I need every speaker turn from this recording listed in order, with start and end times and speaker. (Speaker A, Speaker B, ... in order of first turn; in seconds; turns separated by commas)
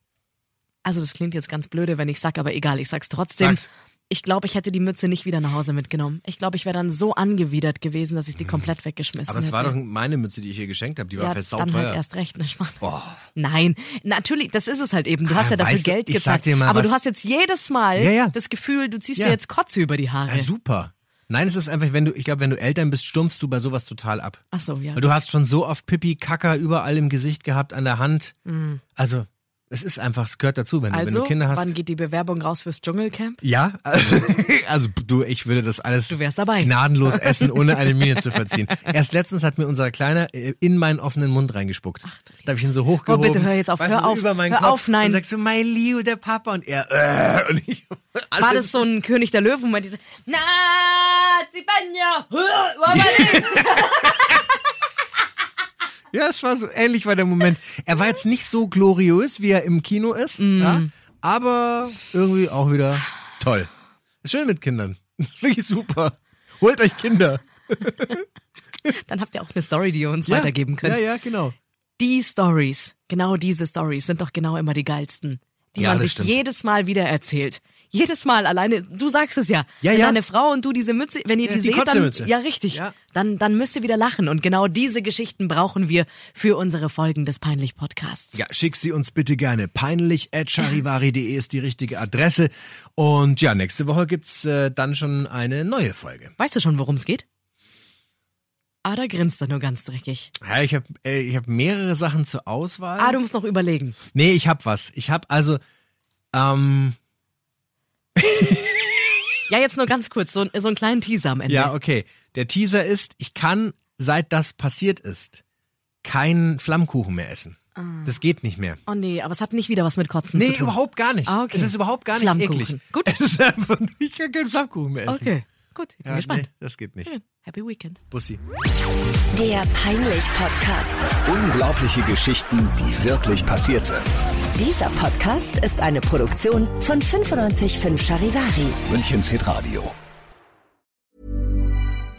Speaker A: 0.8-9.8, Speaker B: 3.4-3.7, Speaker B: 9.3-12.0, Speaker A: 11.2-12.8, Speaker B: 12.8-13.2, Speaker A: 13.3-20.5, Speaker B: 15.2-16.9, Speaker B: 17.9-18.4, Speaker B: 20.3-24.4, Speaker A: 24.5-25.1, Speaker B: 24.9-28.4, Speaker A: 28.4-28.8, Speaker B: 28.9-31.7, Speaker A: 30.9-33.4, Speaker B: 33.4-48.8, Speaker A: 36.1-38.6, Speaker A: 42.0-42.5, Speaker A: 43.0-45.2, Speaker A: 48.4-54.4, Speaker B: 52.9-53.8, Speaker B: 56.1-63.7, Speaker A: 60.4-60.9, Speaker B: 64.2-68.2, Speaker A: 68.9-71.0, Speaker B: 70.3-71.5, Speaker A: 72.0-88.4, Speaker B: 75.8-76.4, Speaker B: 79.8-80.2, Speaker B: 81.4-83.0, Speaker B: 88.3-96.3, Speaker A: 96.4-97.2, Speaker A: 98.8-100.3, Speaker B: 100.4-103.2, Speaker A: 103.0-104.0, Speaker B: 104.1-105.6, Speaker B: 106.3-107.0, Speaker B: 108.2-109.2, Speaker A: 109.5-111.7, Speaker B: 111.5-115.4, Speaker B: 116.0-118.8, Speaker A: 117.8-118.1, Speaker A: 118.9-123.1, Speaker B: 120.3-125.3, Speaker A: 125.1-126.5, Speaker B: 126.0-127.1, Speaker A: 127.0-128.0, Speaker B: 128.1-128.4, Speaker C: 129.3-131.1, Speaker D: 131.2-134.1, Speaker C: 134.6-138.8, Speaker D: 138.9-139.9